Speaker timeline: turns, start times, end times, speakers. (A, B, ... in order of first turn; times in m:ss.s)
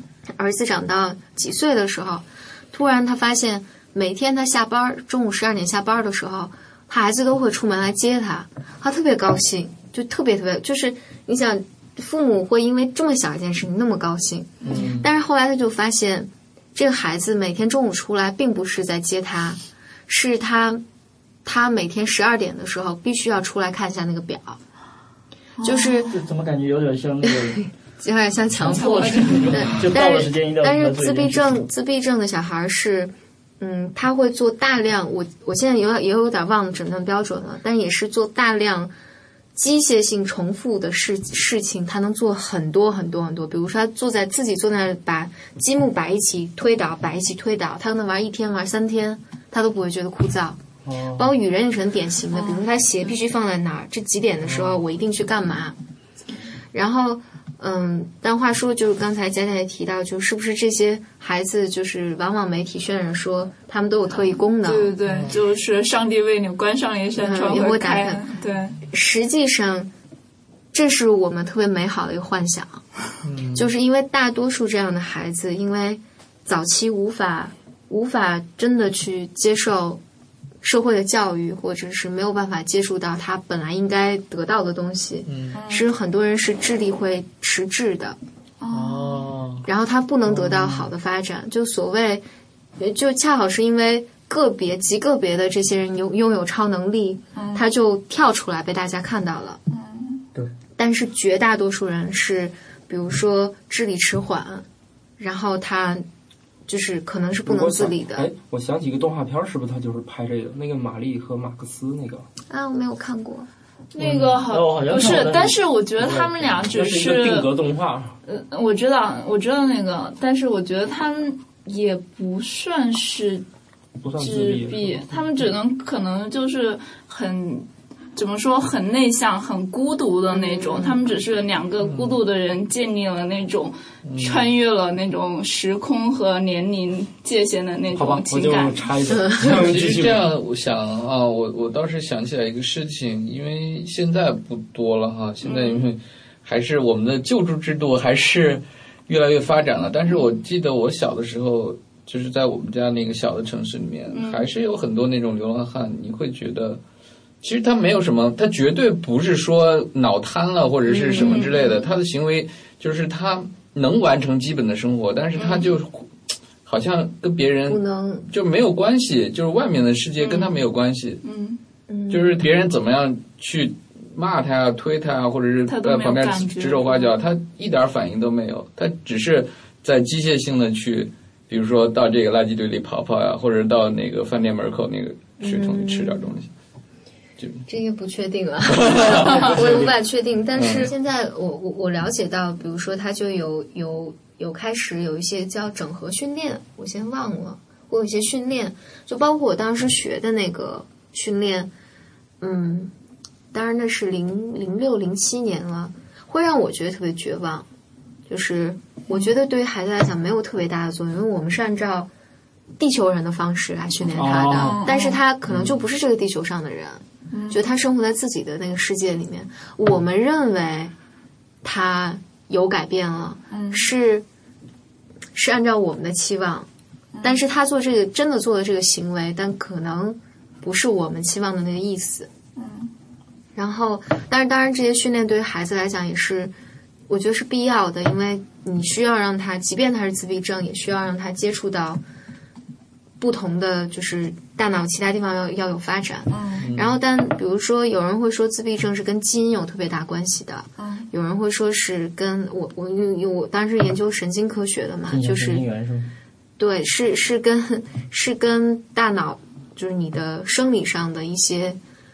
0:00.4-0:20.8 A
0:14.7-0:15.1 B
0:21.4-0:24.6 A
0:25.6-0:26.1 C
0:25.6-0:26.1 A
0:26.1-0:27.7 D
0:27.3-0:38.9 A
0:28.6-0:31.6 D
0:28.6-0:29.7 C
0:39.6-0:50.6 A
0:50.8-0:51.3 E
0:51.2-0:55.8 A
0:52.3-0:53.2 C
0:56.7-1:05.0 A
1:04.6-1:08.8 C
1:07.2-1:08.2 A
1:08.9-1:09.9 A
1:10.7-1:12.8 A
1:13.2-1:13.7 B
1:13.5-1:20.0 A
1:20.6-1:28.2 A
1:25.3-1:25.6 B
1:25.5-1:25.9 C
1:28.6-1:29.3 C
1:28.9-1:29.6 B
1:29.7-1:32.2 A
1:32.8-1:39.6 A
1:37.4-1:37.6 C
1:39.7-1:40.2 C
1:40.8-1:44.6 A
1:45.2-1:46.1 A
1:46.7-1:48.3 A
1:47.4-1:52.3 E
1:52.5-1:53.5 A
1:53.9-1:57.5 C
1:54.0-1:55.6 D
1:56.0-1:58.2 E
1:58.3-2:03.4 C
2:04.0-2:05.2 E
2:04.2-2:18.9 C
2:10.3-2:11.0 A
2:14.0-2:14.5 B
2:17.9-2:20.3 E
2:19.1-2:19.6 A
2:19.5-2:36.8 B
2:25.4-2:25.8 C
2:34.1-2:34.5 C
2:37.4-2:46.1 B
2:40.9-2:41.5 A
2:41.2-2:41.9 C
2:46.6-2:51.2 B
2:47.7-2:48.3 A
2:50.2-2:50.6 C
2:51.2-2:51.6 C
2:51.9-2:52.5 A
2:52.1-3:06.5 B
2:55.7-2:57.2 C
3:05.4-3:06.3 A
3:07.4-3:07.6 B
3:07.7-3:21.7 A
3:08.7-3:09.9 B
3:10.6-3:10.9 B
3:22.4-3:22.9 A
3:23.5-3:27.7 A
3:28.3-3:32.1 A
3:32.8-3:40.9 A
3:34.1-3:34.9 E
3:34.5-3:35.2 C
3:37.3-3:37.6 C
3:41.6-3:44.2 A
3:43.5-3:43.9 C
3:45.4-3:46.7 A
3:47.2-3:47.4 C
3:47.2-3:52.3 A
3:52.6-3:52.9 C
3:53.6-3:56.5 A
3:57.1-4:02.0 A
4:03.2-4:15.7 A
4:06.3-4:06.7 C
4:06.6-4:07.0 B
4:10.8-4:11.1 C
4:15.1-4:16.1 D
4:16.6-4:21.8 A